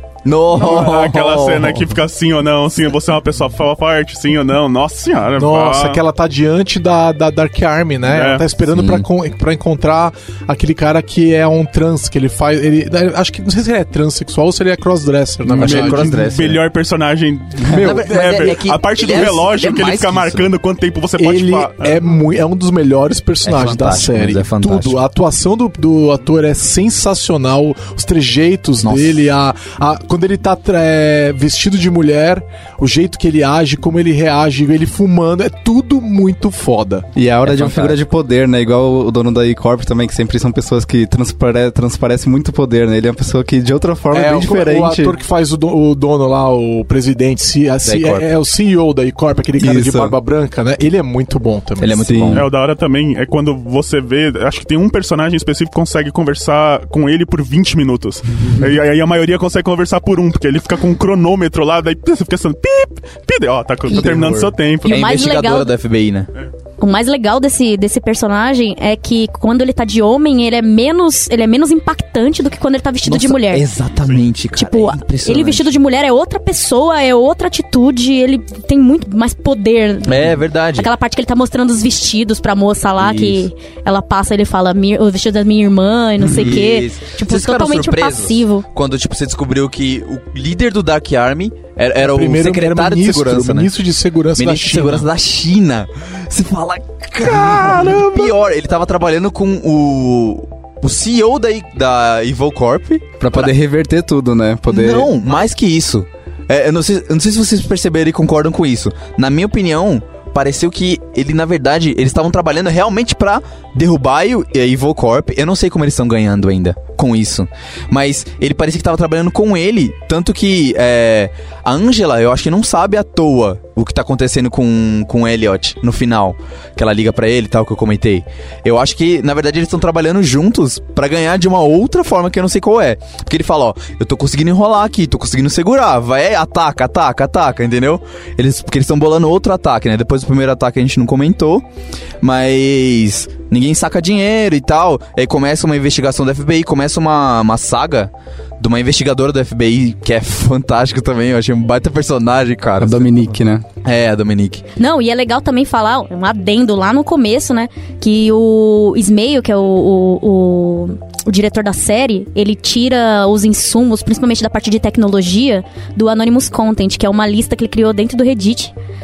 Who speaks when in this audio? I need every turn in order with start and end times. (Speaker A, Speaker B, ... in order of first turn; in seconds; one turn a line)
Speaker A: 0.2-1.9
Speaker B: 0.5-6.0
Speaker C: 5.4-16.1
Speaker B: 8.1-8.4
Speaker A: 8.7-9.0
Speaker A: 15.5-16.6
Speaker B: 15.6-22.0
Speaker C: 17.7-18.4
Speaker A: 17.7-20.5
Speaker C: 21.2-37.1
Speaker A: 23.4-25.0
Speaker A: 28.8-29.2
Speaker D: 37.1-45.1
Speaker A: 37.4-38.0
Speaker C: 44.1-52.0
Speaker A: 47.8-48.2
Speaker D: 49.6-50.1
Speaker A: 51.8-52.5
Speaker D: 52.0-52.4
Speaker B: 52.3-65.2
Speaker A: 63.9-66.3
Speaker E: 64.9-65.7
Speaker E: 66.8-73.7
Speaker A: 73.0-75.7
Speaker E: 74.5-88.6
Speaker A: 80.0-80.9
Speaker A: 83.0-83.5
Speaker A: 86.2-93.7
Speaker C: 92.0-95.1
Speaker A: 94.4-103.5
Speaker C: 97.2-98.3
Speaker D: 103.2-105.1
Speaker A: 104.7-141.7
Speaker A: 142.2-153.2
Speaker D: 152.8-153.6
Speaker A: 153.8-154.6
Speaker E: 154.8-168.7